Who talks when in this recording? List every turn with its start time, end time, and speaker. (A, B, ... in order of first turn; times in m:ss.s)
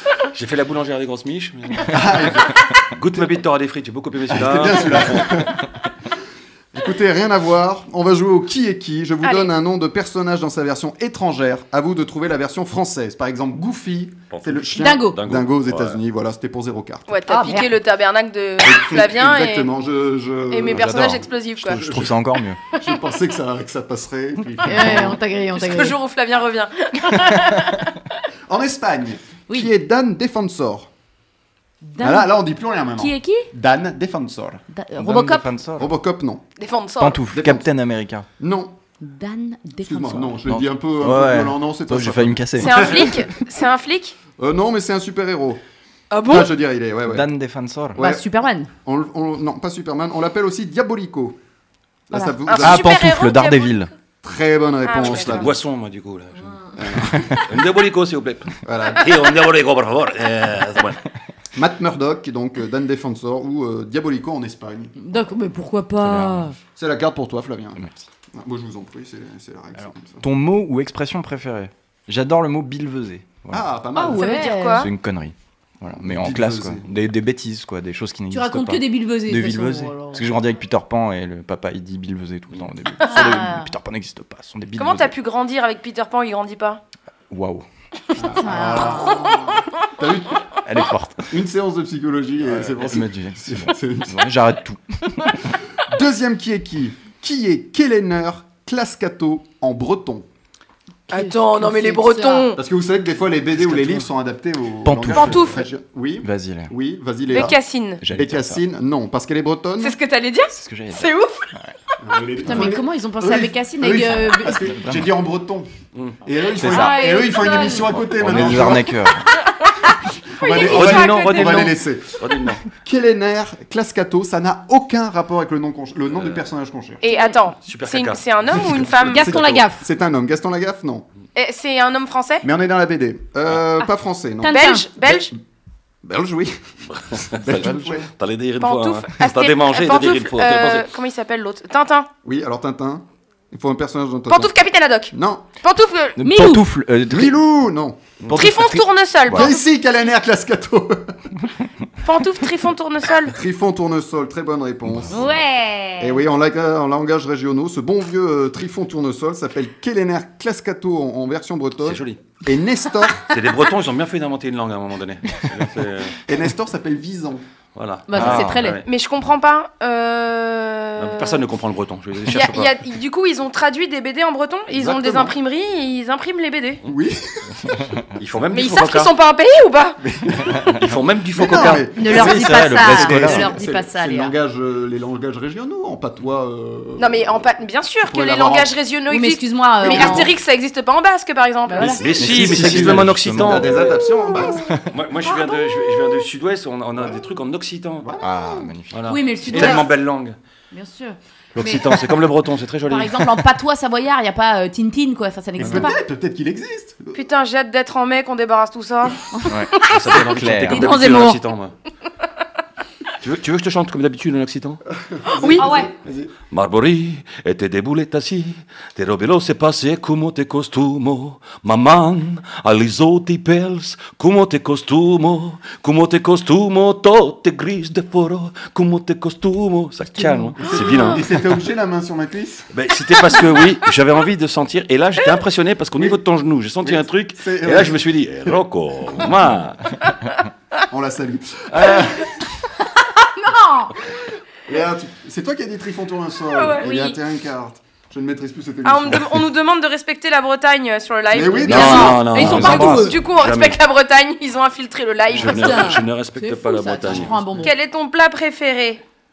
0:00.3-0:02.3 A
0:01.9-0:02.7 B
0:02.9-0:05.4 A
0:04.3-0:05.7 B
0:06.7-0:17.1 B
0:09.2-0:09.5 C
0:14.3-0:16.0 A
0:14.8-0:15.2 D
0:17.1-0:19.7 C
0:17.3-0:17.7 D
0:18.6-0:22.2 B
0:20.5-0:21.9 C
0:20.7-0:22.6 E
0:22.7-0:23.0 C
0:22.8-0:25.2 B
0:24.6-0:26.0 D
0:25.6-0:27.9 C
0:28.5-0:30.9 B
0:31.8-0:32.4 D
0:32.0-0:34.6 B
0:33.0-0:33.5 D
0:34.7-0:35.5 D
0:35.0-0:35.9 E
0:35.8-0:36.5 B
0:36.6-0:37.2 C
0:37.0-0:38.2 E
0:37.3-0:37.7 B
0:38.4-0:38.7 B
0:39.0-0:40.4 D
0:39.8-0:43.4 B
0:40.4-0:43.1 E
0:42.6-0:44.2 C
0:44.4-0:45.6 B
0:46.1-0:46.5 C
0:46.2-0:47.3 B
0:47.1-0:48.0 E
0:47.9-0:48.2 B
0:48.0-0:48.7 D
0:48.8-0:51.4 B
0:52.1-0:53.0 B
0:52.5-0:53.9 C
0:52.6-0:53.9 E
0:54.2-0:55.5 B
0:54.8-0:55.5 C
0:55.0-1:01.0 A
0:56.8-0:57.4 B
0:58.6-0:59.3 B
1:01.5-1:04.9 B
1:05.0-1:06.5 D
1:06.0-1:06.5 E
1:06.8-1:07.8 B
1:07.8-1:08.0 E
1:08.3-1:10.2 B
1:10.2-1:13.7 E
1:13.5-1:14.4 B
1:13.9-1:14.9 D
1:14.1-1:14.9 C
1:14.7-1:25.1 E
1:16.0-1:16.9 B
1:18.3-1:20.2 D
1:23.0-1:23.7 D
1:24.8-1:26.8 C
1:27.3-1:27.6 E
1:28.2-1:30.4 B
1:28.4-1:29.5 D
1:30.6-1:31.3 E
1:31.3-1:34.2 B
1:32.4-1:35.4 E
1:35.9-1:40.2 B
1:41.1-1:42.5 D
1:41.1-1:42.6 C
1:42.6-1:50.0 B
1:43.6-1:44.0 E
1:44.8-1:45.6 E
1:45.0-1:45.6 C
1:46.2-1:46.7 E
1:47.3-1:48.0 C
1:48.0-1:48.6 E
1:49.8-1:51.5 C
1:50.5-1:51.7 E
1:52.0-1:55.7 B
1:52.4-1:54.6 D
1:54.7-1:55.1 E
1:55.9-1:56.2 A
1:56.2-1:59.1 B
1:56.6-1:57.1 E
1:56.6-1:58.0 D
1:57.9-1:59.3 E
2:00.3-2:07.0 B
2:00.4-2:01.7 C
2:00.6-2:02.6 A
2:06.1-2:06.5 A
2:07.0-2:09.4 C
2:07.6-2:09.3 A
2:09.1-2:09.8 D
2:09.1-2:11.0 B
2:11.3-2:12.4 C
2:12.4-2:15.3 B
2:14.4-2:14.9 D
2:14.5-2:15.3 C
2:16.0-2:16.6 B
2:16.9-2:20.8 A
2:17.1-2:18.1 B
2:17.7-2:17.9 E
2:18.6-2:22.1 C
2:22.2-2:24.5 B
2:24.3-2:26.2 C
2:25.1-2:25.5 B
2:26.2-2:27.4 E
2:26.2-2:26.6 D
2:27.1-2:28.0 B
2:28.3-2:29.5 E
2:28.3-2:29.6 C
2:29.3-2:31.2 B
2:32.0-2:33.4 C
2:33.3-2:35.3 B
2:34.8-2:35.3 E
2:35.1-2:36.2 D
2:36.0-2:43.3 B
2:41.8-2:42.2 A
2:43.3-2:46.2 A
2:46.3-2:47.4 B
2:47.7-2:48.8 A
2:48.1-2:48.8 D
2:48.1-2:48.7 E
2:48.8-2:51.4 C
2:51.0-2:52.7 A
2:52.2-2:56.8 C
2:54.7-2:55.4 B
2:56.8-2:57.8 B
2:58.2-2:59.1 A
2:58.5-3:00.0 C
3:00.0-3:00.7 B
3:00.8-3:01.9 A
3:01.3-3:07.4 B
3:01.9-3:04.3 D
3:02.0-3:03.5 E
3:07.0-3:12.1 C
3:08.0-3:08.7 B
3:09.1-3:10.3 D
3:09.8-3:10.3 B
3:11.7-3:12.0 D
3:11.8-3:14.7 B
3:12.0-3:14.0 A
3:12.2-3:14.8 E
3:14.9-3:18.1 A
3:18.0-3:18.7 B
3:18.2-3:19.7 E
3:18.9-3:20.4 A
3:19.1-3:19.8 D
3:20.7-3:21.8 D
3:21.6-3:23.4 A
3:22.9-3:26.0 D
3:25.6-3:27.2 B
3:27.1-3:29.2 C
3:29.5-3:31.0 E
3:29.8-3:31.7 A
3:30.7-3:31.4 D
3:33.2-3:34.8 A
3:35.0-3:36.3 B
3:35.4-3:35.7 C
3:35.5-3:35.9 D
3:36.5-3:51.3 A
3:50.1-3:51.1 D
3:50.6-3:52.7 B
3:52.7-3:59.8 A
3:56.8-3:58.6 B
4:00.9-4:02.3 B
4:01.7-4:02.1 A
4:03.2-4:03.9 D
4:04.7-4:09.5 B
4:06.5-4:07.2 C
4:08.8-4:16.0 C
4:11.3-4:13.0 B
4:11.6-4:13.2 D
4:11.7-4:13.8 A
4:15.3-4:17.4 A
4:15.4-4:17.7 D
4:17.1-4:17.5 B
4:17.6-4:19.0 C